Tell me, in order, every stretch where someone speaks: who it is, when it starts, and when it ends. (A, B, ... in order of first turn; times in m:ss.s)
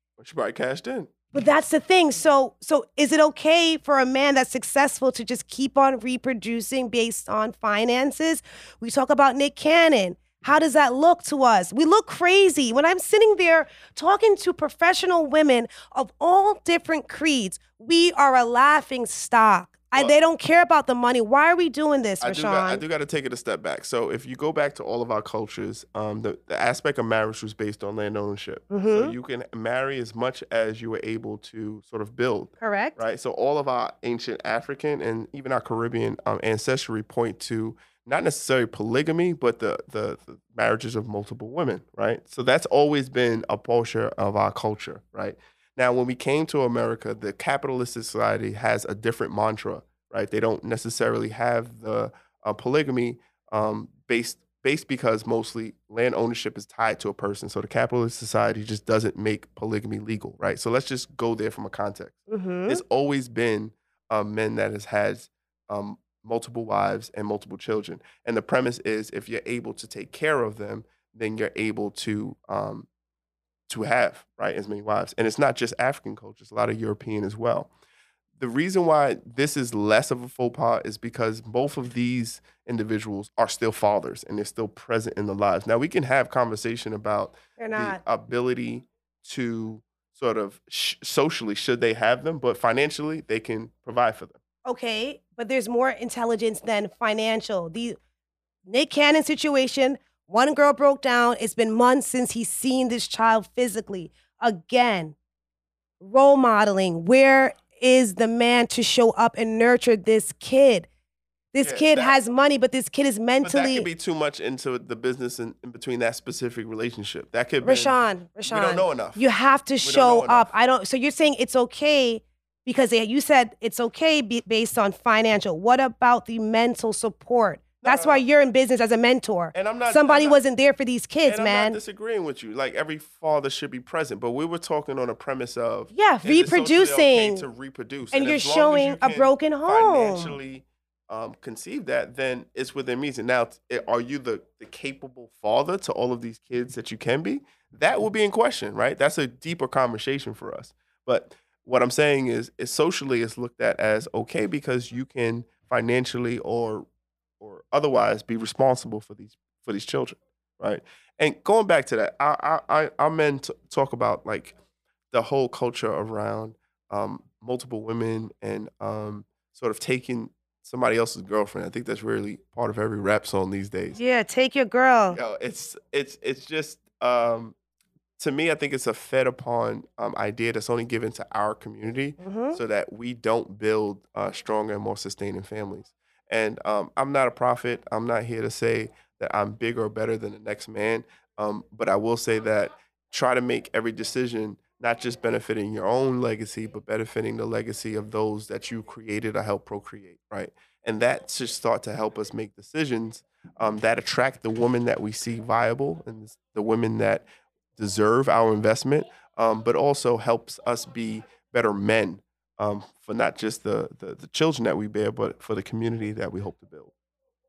0:00.2-0:01.1 A
0:01.3-0:22.8 B
0:22.2-1:12.9 A
0:28.7-0:29.1 B
0:32.6-0:33.0 B
1:02.3-1:02.8 B
1:13.7-1:17.7 A
1:18.4-1:34.4 A
1:27.6-1:28.0 B
1:34.6-1:38.0 B
1:38.7-1:45.2 B
1:46.0-1:50.9 B
1:51.5-1:53.9 B
1:51.6-1:52.2 A
1:53.4-1:58.0 A
1:57.6-2:11.8 B
1:58.5-1:59.2 A
1:59.8-2:00.5 A
2:07.8-2:08.2 A
2:09.5-2:10.4 A
2:11.2-2:36.9 A
2:15.9-2:17.5 B
2:18.1-2:20.4 B
2:37.4-2:44.6 A
2:45.1-2:54.0 A
2:54.0-2:55.2 B
2:55.1-2:57.6 A
2:58.2-3:27.2 A
3:02.2-3:02.6 B
3:27.8-3:36.9 A